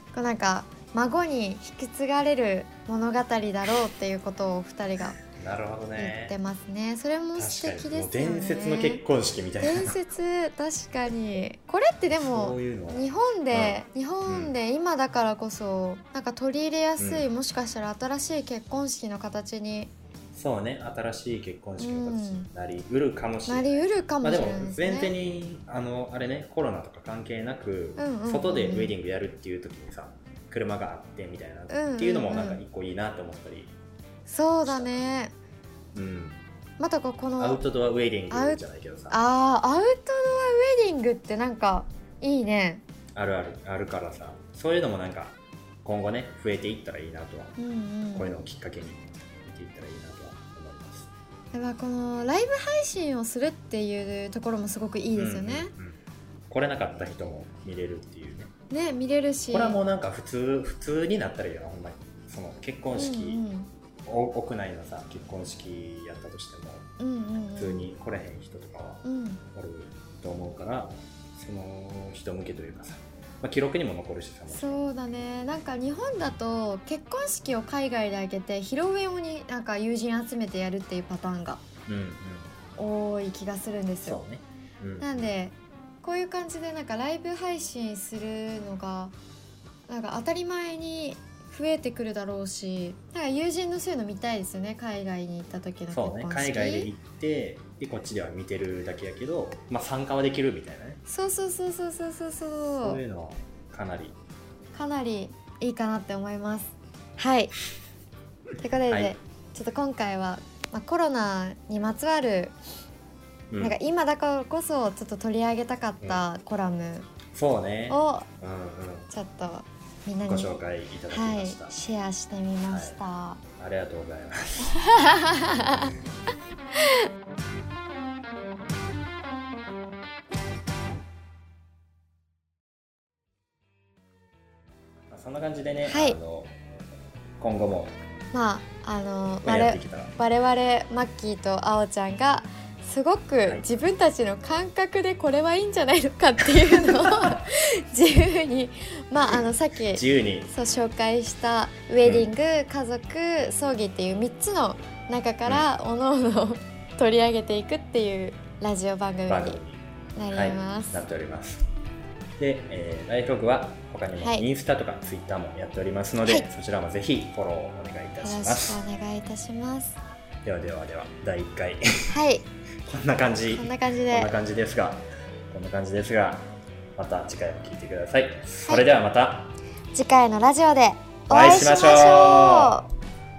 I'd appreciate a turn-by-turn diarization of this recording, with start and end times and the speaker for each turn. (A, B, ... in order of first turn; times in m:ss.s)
0:00.1-0:05.2 A
0:05.3-0:06.3 B
0:05.9-0:09.0 A
0:07.4-0:10.0 B
0:09.6-0:19.9 A
0:12.1-0:14.5 B
0:17.0-0:17.3 B
0:20.3-0:33.7 B
0:21.8-0:22.5 A
0:23.5-0:25.1 A
0:28.0-0:29.0 A
0:31.7-0:32.6 A
0:34.2-0:35.3 A
0:34.6-0:35.0 B
0:35.9-0:36.4 B
0:36.8-0:37.6 A
0:37.4-0:39.2 B
0:38.3-0:42.8 A
0:43.1-0:47.6 B
0:47.6-0:48.3 A
0:48.1-0:51.1 B
0:51.5-0:55.7 A
0:55.1-0:58.5 B
0:58.7-0:59.8 A
0:59.5-1:03.4 B
1:02.9-1:03.7 A
1:04.0-1:06.9 B
1:07.0-1:07.9 A
1:07.6-1:14.8 B
1:09.0-1:09.4 A
1:14.5-1:21.6 A
1:21.9-1:22.5 B
1:22.8-1:24.2 A
1:24.0-1:25.3 B
1:25.0-1:29.1 A
1:29.9-1:36.9 A
1:35.9-1:41.0 B
1:41.1-1:43.0 A
1:42.7-1:44.2 B
1:44.7-1:47.5 A
1:48.6-1:52.6 A
1:48.9-1:49.2 B
1:53.5-1:53.8 B
1:53.6-1:57.1 A
1:57.3-1:59.1 B
1:57.9-1:58.3 A
1:59.1-2:03.4 A
2:00.2-2:01.7 B
2:02.6-2:03.0 B
2:03.6-2:04.8 B
2:04.7-2:05.9 A
2:15.1-2:16.5 B
2:15.8-2:16.2 A
2:17.4-2:17.9 B
2:18.3-2:39.6 A
2:19.4-2:20.2 B
2:23.4-2:23.7 B
2:26.6-2:27.4 B
2:29.2-2:30.5 B
2:32.0-2:32.3 B
2:39.3-2:41.6 B
2:40.2-2:41.0 A
2:42.4-2:48.8 B
2:44.2-2:44.4 A
2:48.2-2:50.0 A
2:50.4-2:52.1 B
2:52.1-2:52.4 A
2:52.8-2:59.6 B
2:53.5-2:54.3 A
2:59.9-3:02.9 A
3:01.3-3:02.8 B